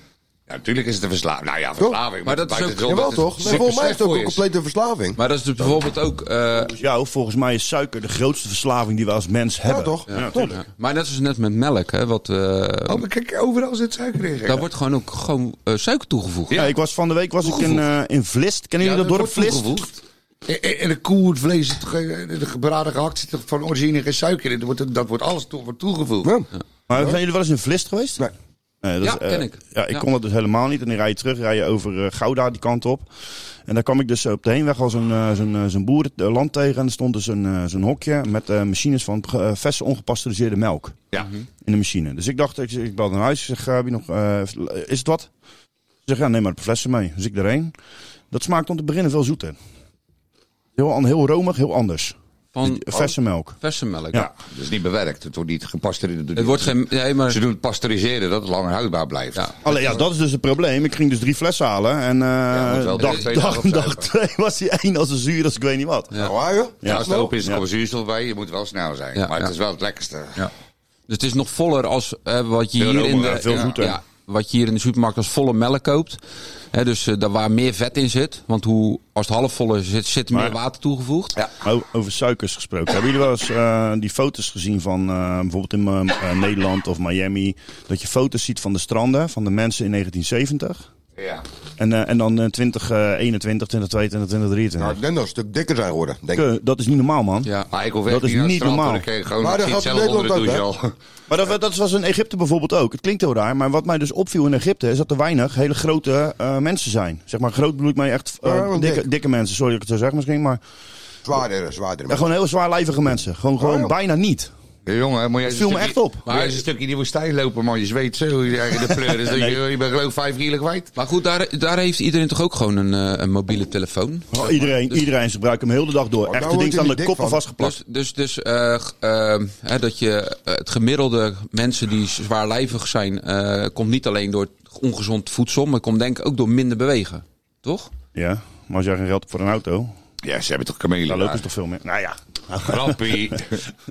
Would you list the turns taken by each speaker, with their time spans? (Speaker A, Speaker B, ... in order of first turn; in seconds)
Speaker A: 0.5-4.4, 12.9-14.6, 17.5-17.8, 18.8-26.3, 54.1-59.5, 62.5-64.1, 66.8-70.4, 72.8-73.8, 91.2-91.4, 97.7-100.9, 114.8-120.9, 140.2-141.4, 142.6-143.6
Speaker B: 2.2-3.6, 5.2-6.7, 10.1-13.0, 14.4-16.5, 29.0-30.0, 52.5-54.3, 56.3-57.4, 69.1-69.5, 71.1-76.2, 76.7-81.3, 116.2-116.6, 121.0-125.0, 127.6-137.9
Speaker C: 2.8-5.2, 9.7-10.6, 26.2-27.2, 66.2-67.3, 94.8-96.5, 99.4-100.6, 108.4-109.0, 111.2-112.3, 113.6-113.9, 126.3-127.4
Speaker D: 6.6-10.5, 16.5-19.7, 26.9-28.2, 28.8-33.1, 33.7-41.0, 41.6-45.3, 46.0-47.7, 48.3-49.5, 50.8-53.6, 59.6-66.1, 66.8-67.6, 73.1-74.0, 80.3-80.6, 81.6-90.8, 91.8-95.0, 96.3-97.5, 98.1-99.0, 101.3-110.6, 112.1-114.5, 115.4-116.2, 119.1-119.6, 124.3-127.8, 138.1-139.9, 141.1-143.4